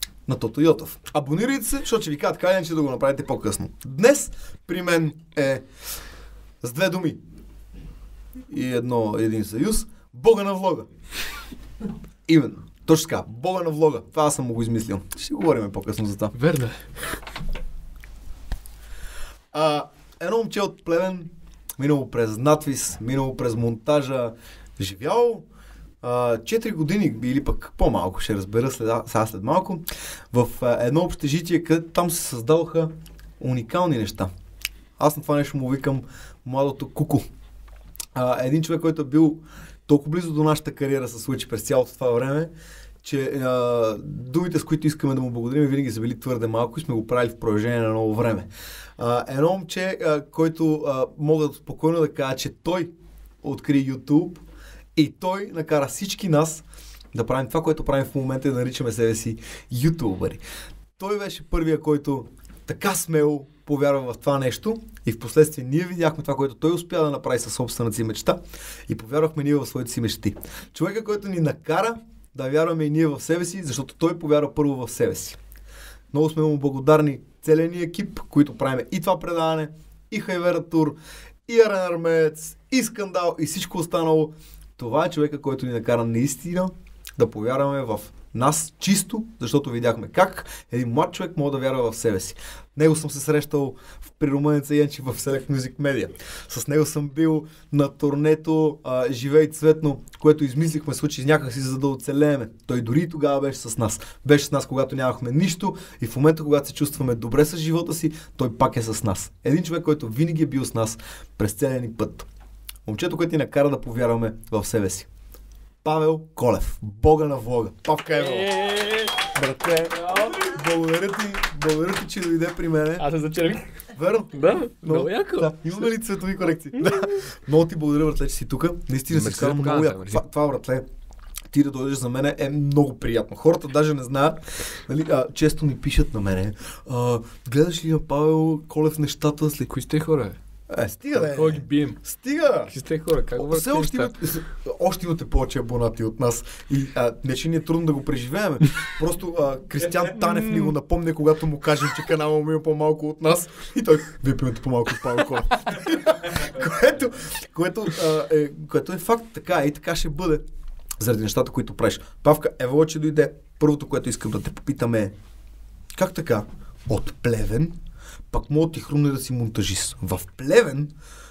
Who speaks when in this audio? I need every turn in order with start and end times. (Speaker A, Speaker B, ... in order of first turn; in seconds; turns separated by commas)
Speaker A: 0.3-5.7, Speaker A: 6.6-7.2, Speaker A: 8.5-10.9, Speaker A: 12.3-16.3, Speaker B: 16.3-16.9, Speaker A: 19.5-25.4, Speaker A: 26.0-34.3, Speaker A: 35.0-37.2, Speaker A: 38.1-42.5, Speaker A: 43.0-52.9, Speaker A: 53.4-54.4, Speaker A: 55.0-60.4, Speaker A: 61.0-75.4, Speaker A: 76.1-112.3, Speaker A: 112.8-115.1, Speaker A: 115.8-118.5, Speaker B: 118.1-120.5, Speaker A: 119.2-123.0, Speaker B: 123.0-123.8, Speaker A: 123.9-130.8, Speaker B: 124.3-125.8, Speaker B: 129.1-130.2, Speaker A: 131.5-139.7, Speaker B: 139.7-140.4, Speaker A: 140.7-142.7, Speaker B: 141.1-142.0, Speaker B: 142.7-144.1, Speaker A: 143.4-160.4, Speaker B: 150.1-150.7, Speaker A: 161.0-165.1, Speaker A: 165.9-167.7, Speaker A: 168.3-170.9